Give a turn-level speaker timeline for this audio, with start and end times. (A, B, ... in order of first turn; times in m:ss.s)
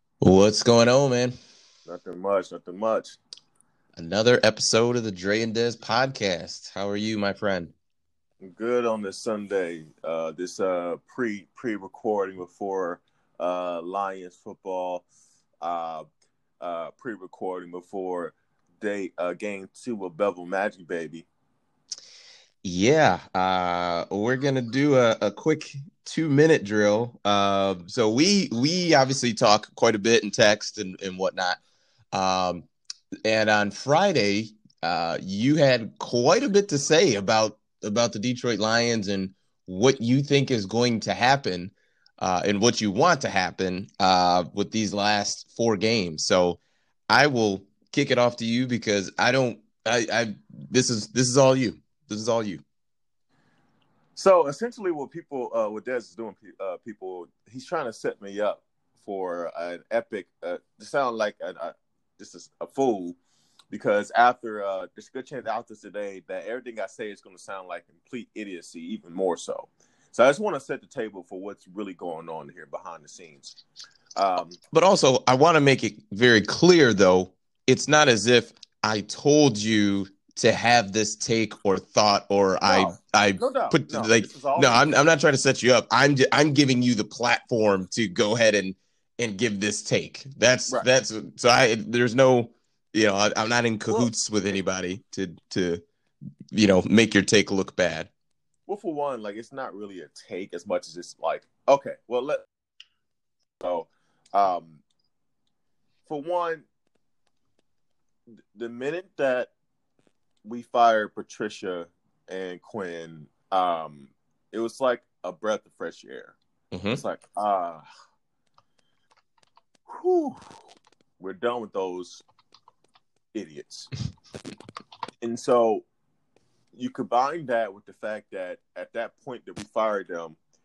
0:00.2-0:01.4 A
0:01.9-0:03.2 B
0:04.0-0:07.7 A
0:08.4-0:15.0 B
0:15.6-0:16.1 B
0:16.6-0:21.3 B
0:22.6-0:31.6 A
0:32.1-0:32.7 A
0:33.2-0:52.6 A
0:54.2-1:03.2 B
1:03.7-1:13.6 B
1:14.2-1:14.6 B
1:14.7-1:35.8 A
1:22.7-1:25.0 B
1:36.5-1:38.1 A
1:38.7-1:42.4 B
1:43.6-1:44.8 B
1:46.0-1:46.6 B
1:48.5-1:49.5 B
1:50.4-1:56.4 B
1:56.7-1:57.0 A
1:56.9-1:57.8 B
1:59.9-2:00.5 B
2:01.2-2:02.2 B
2:03.3-2:03.9 B
2:05.2-2:05.8 B
2:06.7-2:10.4 B